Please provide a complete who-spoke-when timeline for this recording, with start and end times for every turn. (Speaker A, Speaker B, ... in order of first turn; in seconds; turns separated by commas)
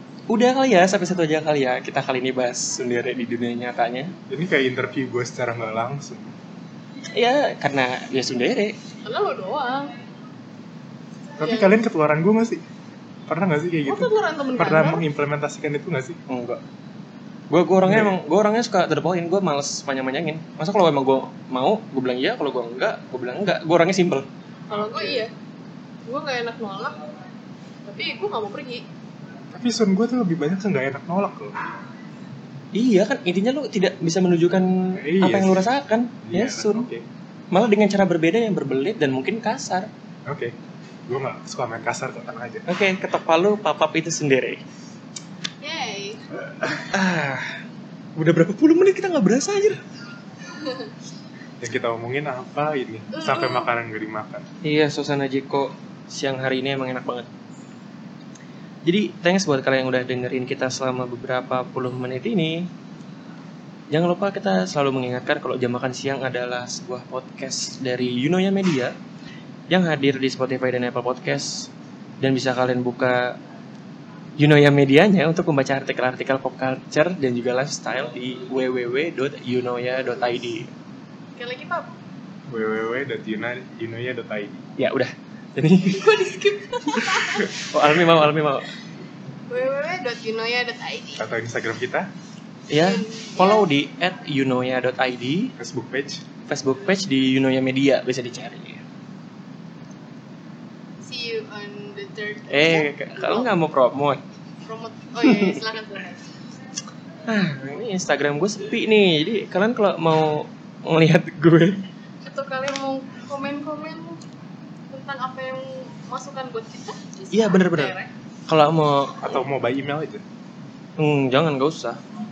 Speaker A: 0.3-4.1, Speaker B: 4.3-6.3, Speaker A: 7.1-8.8, Speaker C: 9.0-9.9, Speaker C: 11.4-11.7, Speaker B: 11.4-12.6, Speaker B: 13.3-16.2, Speaker C: 13.8-15.0, Speaker A: 16.3-16.6, Speaker A: 17.5-24.3, Speaker B: 17.8-18.2, Speaker C: 24.7-25.3, Speaker B: 24.7-25.2, Speaker C: 26.1-27.0, Speaker C: 27.9-28.8, Speaker B: 29.5-31.6, Speaker A: 32.7-36.9, Speaker B: 35.0-35.7, Speaker B: 36.2-37.0, Speaker A: 37.5-39.9, Speaker B: 40.3-40.5, Speaker B: 41.1-42.6, Speaker A: 42.7-44.6, Speaker C: 45.6-46.2, Speaker B: 46.5-46.8, Speaker A: 46.9-47.6, Speaker A: 48.1-49.8, Speaker B: 51.6-54.5, Speaker C: 53.1-53.7, Speaker A: 54.6-57.3, Speaker A: 58.8-62.7, Speaker A: 63.9-68.9, Speaker A: 69.7-73.4, Speaker A: 74.4-80.7, Speaker C: 81.4-81.9, Speaker B: 82.5-84.6, Speaker A: 84.8-86.2, Speaker C: 85.9-87.5, Speaker A: 86.9-88.7, Speaker C: 89.5-91.2, Speaker B: 91.2-92.1, Speaker A: 92.7-95.5, Speaker C: 92.8-93.6, Speaker B: 95.6-96.2, Speaker A: 96.5-98.8, Speaker C: 101.0-103.5, Speaker A: 102.5-104.2, Speaker C: 104.6-106.3, Speaker A: 105.2-105.6, Speaker A: 107.3-111.8, Speaker C: 112.2-114.2, Speaker C: 114.9-118.1, Speaker A: 117.3-117.9, Speaker A: 118.5-119.3, Speaker B: 119.2-120.2, Speaker A: 121.0-122.0